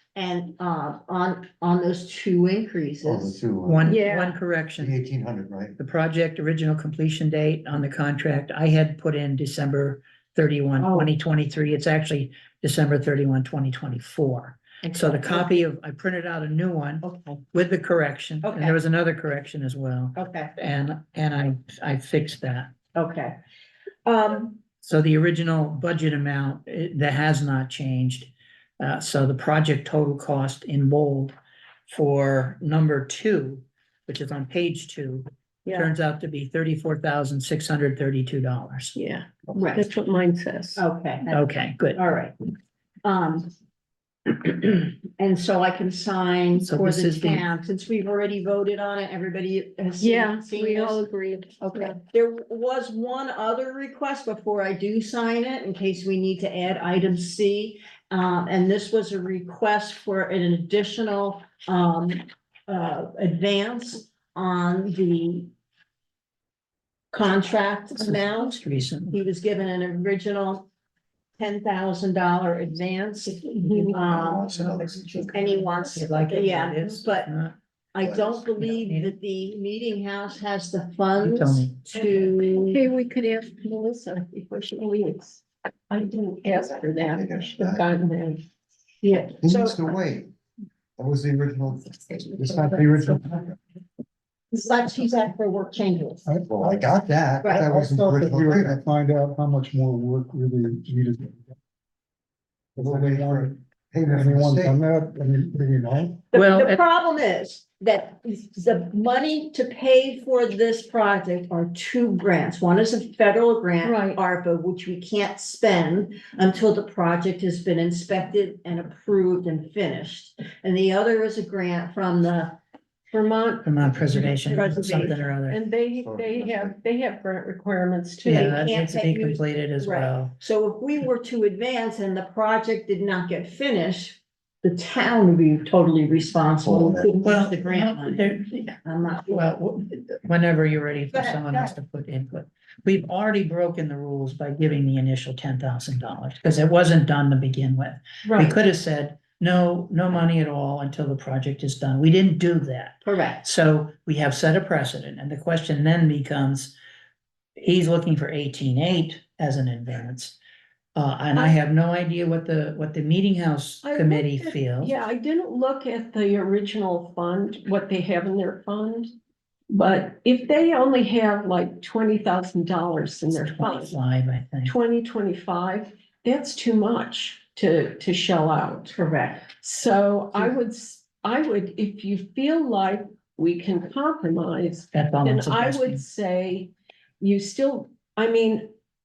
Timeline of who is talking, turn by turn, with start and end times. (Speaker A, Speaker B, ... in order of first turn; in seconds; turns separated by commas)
Speaker A: 0.1-3.4, Speaker B: 3.0-3.9, Speaker C: 3.6-5.0, Speaker D: 3.8-4.4, Speaker B: 4.7-5.8, Speaker C: 5.8-22.7, Speaker A: 10.8-11.1, Speaker A: 14.8-15.6, Speaker A: 17.0-17.4, Speaker A: 18.4-18.8, Speaker A: 20.1-20.5, Speaker A: 22.9-23.4, Speaker A: 24.1-24.6, Speaker C: 24.8-31.4, Speaker C: 31.9-38.9, Speaker D: 35.6-35.9, Speaker D: 39.0-40.8, Speaker A: 39.5-39.9, Speaker A: 40.8-42.3, Speaker C: 41.3-42.0, Speaker A: 43.0-43.5, Speaker A: 44.2-51.0, Speaker C: 46.6-47.5, Speaker D: 50.0-52.0, Speaker A: 51.6-65.5, Speaker A: 67.1-70.7, Speaker C: 68.0-69.2, Speaker A: 71.4-74.5, Speaker D: 73.6-74.0, Speaker C: 73.8-77.5, Speaker B: 74.0-75.4, Speaker A: 75.3-77.3, Speaker A: 77.9-82.8, Speaker B: 78.0-78.7, Speaker C: 78.6-79.2, Speaker C: 81.2-81.8, Speaker D: 82.7-88.4, Speaker B: 87.0-87.8, Speaker A: 89.0-89.8, Speaker B: 89.4-90.3, Speaker B: 91.0-93.6, Speaker A: 94.5-96.2, Speaker E: 96.2-96.9, Speaker B: 96.5-98.8, Speaker E: 97.6-101.5, Speaker E: 102.7-106.2, Speaker B: 102.8-104.8, Speaker A: 106.3-122.6, Speaker C: 106.3-106.8, Speaker D: 113.8-114.2, Speaker D: 123.1-128.7, Speaker C: 123.6-125.7, Speaker B: 124.1-125.3, Speaker B: 125.9-126.8, Speaker C: 128.2-130.3, Speaker A: 128.2-139.5, Speaker B: 136.6-137.2, Speaker C: 137.2-138.7, Speaker C: 139.3-156.7, Speaker A: 141.1-141.7, Speaker D: 148.2-148.6, Speaker A: 153.0-153.4, Speaker C: 157.6-160.4, Speaker C: 160.9-164.9, Speaker D: 163.8-169.1, Speaker D: 169.7-173.9, Speaker C: 173.3-174.7, Speaker D: 174.6-178.9, Speaker A: 178.9-179.5, Speaker D: 179.5-188.7, Speaker C: 184.9-186.0